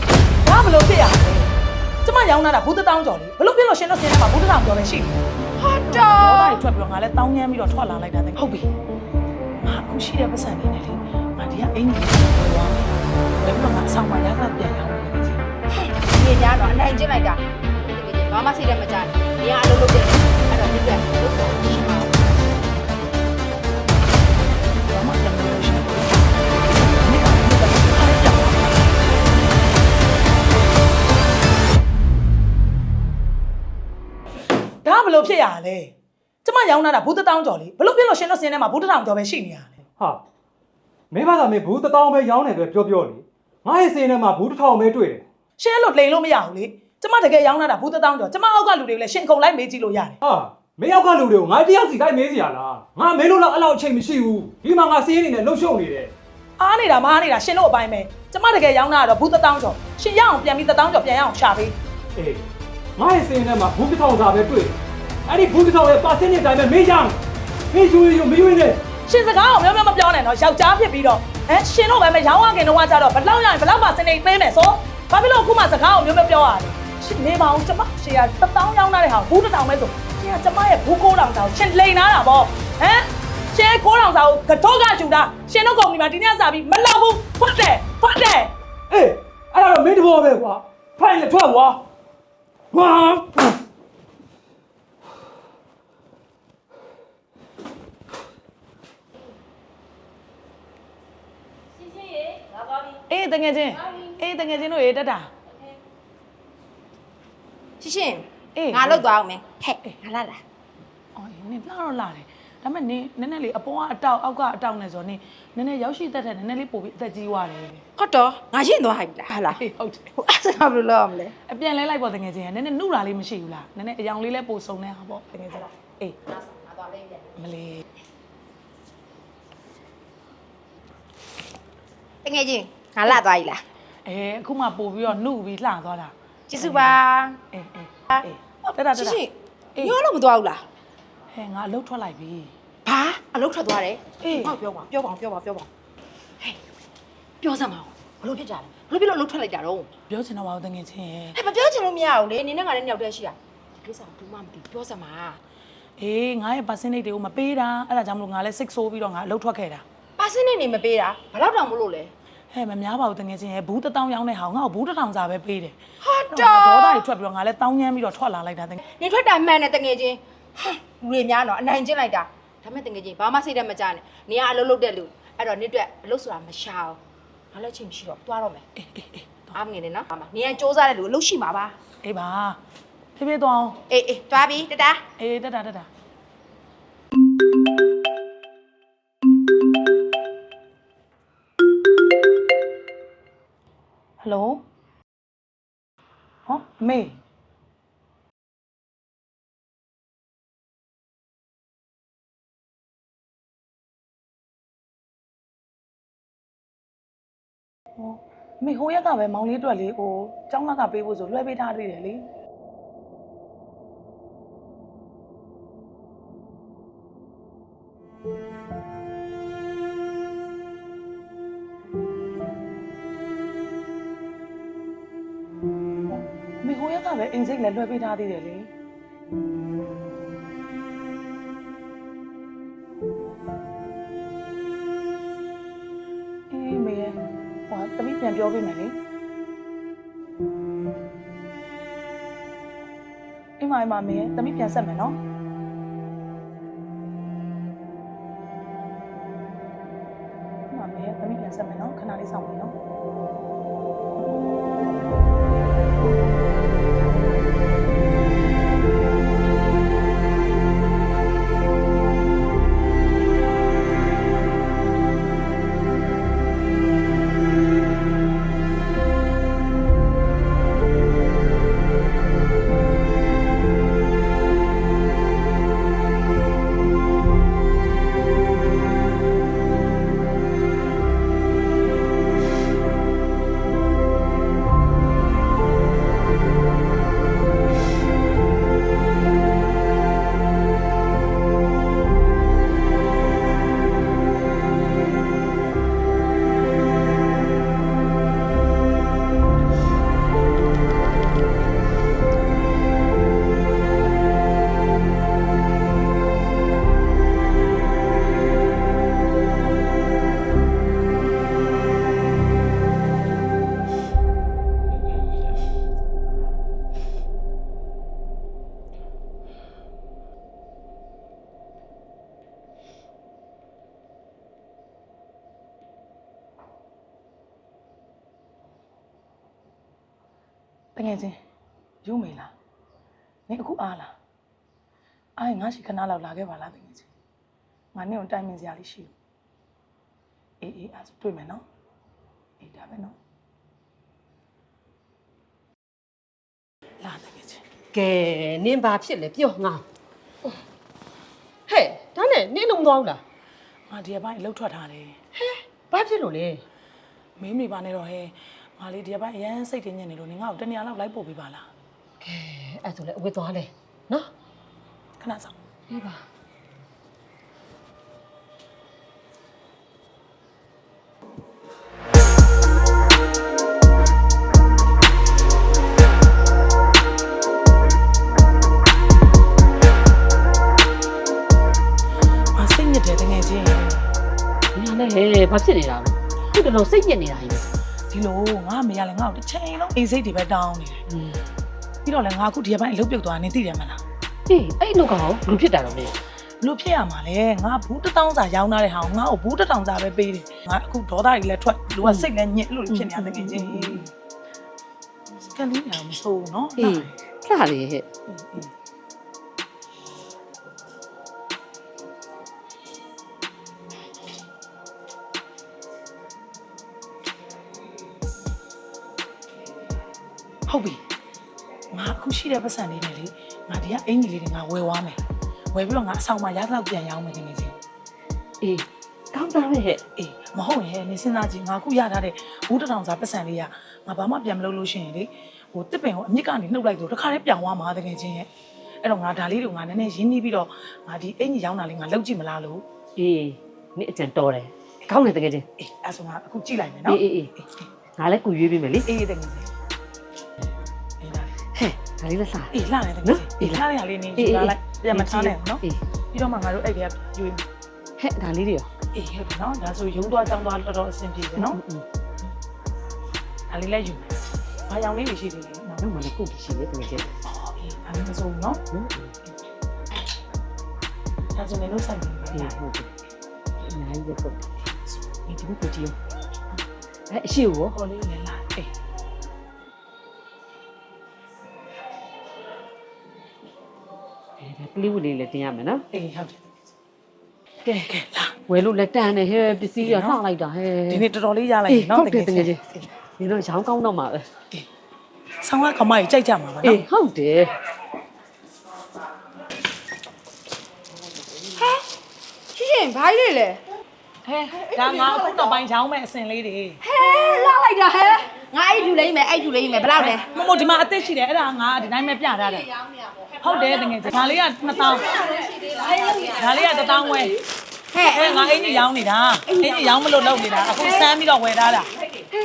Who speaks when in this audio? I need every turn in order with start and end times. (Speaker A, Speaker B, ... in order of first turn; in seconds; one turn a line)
Speaker A: 0.4-1.5
Speaker A: 2.0-5.2
Speaker B: 5.6-6.6
Speaker A: 5.9-8.7
Speaker A: 9.6-15.5
Speaker B: 15.8-22.3
Speaker A: 24.9-28.9
Speaker A: 34.8-39.8
Speaker C: 41.1-45.2
Speaker A: 45.6-50.2
Speaker C: 50.2-56.1
Speaker A: 56.6-61.8
Speaker C: 62.1-62.4
Speaker C: 63.0-67.2
Speaker C: 67.7-68.8
Speaker A: 69.0-88.5
Speaker C: 88.9-91.8
Speaker C: 92.7-93.6
Speaker A: 103.1-105.3
Speaker B: 107.8-110.4
Speaker A: 108.5-109.1
Speaker A: 111.1-117.8
Speaker B: 118.0-119.6
Speaker A: 119.5-120.1
Speaker B: 120.2-121.3
Speaker A: 121.5-126.2
Speaker B: 126.3-127.3
Speaker A: 127.4-127.8
Speaker B: 132.2-133.6
Speaker A: 134.0-137.0
Speaker B: 136.5-137.4
Speaker A: 137.5-139.2
Speaker B: 138.9-140.6
Speaker A: 141.3-142.5
Speaker B: 142.8-145.7
Speaker A: 144.2-144.6
Speaker B: 147.4-149.9
Speaker A: 150.1-151.4
Speaker B: 151.3-155.4
Speaker A: 156.0-159.8
Speaker B: 160.2-162.1
Speaker A: 162.5-165.8
Speaker B: 166.0-167.0
Speaker A: 166.3-168.8
Speaker B: 168.8-177.0
Speaker B: 177.5-178.6
Speaker A: 178.8-179.6
Speaker B: 179.5-181.7
Speaker A: 182.0-182.6
Speaker A: 183.2-183.8
Speaker B: 183.9-185.0
Speaker A: 185.2-185.9
Speaker A: 194.2-194.6
Speaker A: 196.5-197.2
Speaker A: 208.0-212.2
Speaker A: 226.1-228.7
Speaker A: 236.5-237.2
Speaker A: 237.7-238.9
Speaker A: 243.6-245.2
Speaker A: 250.7-252.7
Speaker A: 330.9-331.4
Speaker A: 332.0-332.5
Speaker A: 333.5-334.1
Speaker A: 335.4-337.1
Speaker A: 337.9-339.1
Speaker A: 340.6-341.6
Speaker A: 342.6-343.1
Speaker A: 347.0-347.6
Speaker D: 347.9-349.8
Speaker D: 351.7-353.2
Speaker A: 353.9-355.2
Speaker D: 355.3-356.6
Speaker A: 357.4-361.7
Speaker D: 362.2-364.3
Speaker A: 365.2-365.5
Speaker D: 365.9-366.2
Speaker A: 382.6-384.1
Speaker D: 384.7-387.6
Speaker A: 388.1-391.0
Speaker D: 391.1-391.4
Speaker A: 392.0-394.0
Speaker D: 394.5-396.1
Speaker A: 396.6-404.1
Speaker D: 402.0-402.3
Speaker D: 402.9-404.1
Speaker A: 405.5-407.1
Speaker D: 406.8-408.1
Speaker A: 408.3-408.7
Speaker A: 420.7-421.0
Speaker A: 421.9-425.2
Speaker A: 425.7-427.7
Speaker D: 428.6-430.0
Speaker A: 430.2-438.5
Speaker A: 439.0-442.8
Speaker D: 443.2-445.6
Speaker A: 445.8-447.7
Speaker D: 447.1-447.5
Speaker D: 448.2-449.1
Speaker A: 449.0-449.7
Speaker A: 451.2-451.5
Speaker D: 451.7-452.7
Speaker A: 452.7-457.6
Speaker D: 453.2-453.8
Speaker D: 454.4-456.0
Speaker D: 458.2-458.9
Speaker A: 459.1-461.8
Speaker D: 461.6-462.0
Speaker A: 463.7-464.3
Speaker A: 464.9-466.0
Speaker D: 466.0-467.3
Speaker A: 467.4-468.8
Speaker D: 468.9-469.3
Speaker A: 471.5-472.8
Speaker D: 472.5-473.1
Speaker D: 473.9-474.7
Speaker A: 475.2-476.1
Speaker D: 477.3-477.9
Speaker A: 477.9-478.9
Speaker D: 484.6-486.0
Speaker A: 486.1-486.6
Speaker A: 487.9-488.5
Speaker D: 488.7-491.2
Speaker A: 490.0-490.4
Speaker A: 491.1-493.1
Speaker D: 491.9-494.4
Speaker A: 495.6-497.0
Speaker D: 496.8-497.8
Speaker B: 501.8-502.0
Speaker B: 502.7-503.8
Speaker A: 504.4-507.0
Speaker B: 507.0-510.4
Speaker A: 510.2-512.9
Speaker A: 513.6-515.4
Speaker B: 515.0-516.8
Speaker A: 516.3-517.5
Speaker B: 518.1-518.8
Speaker A: 518.2-522.1
Speaker B: 519.8-521.3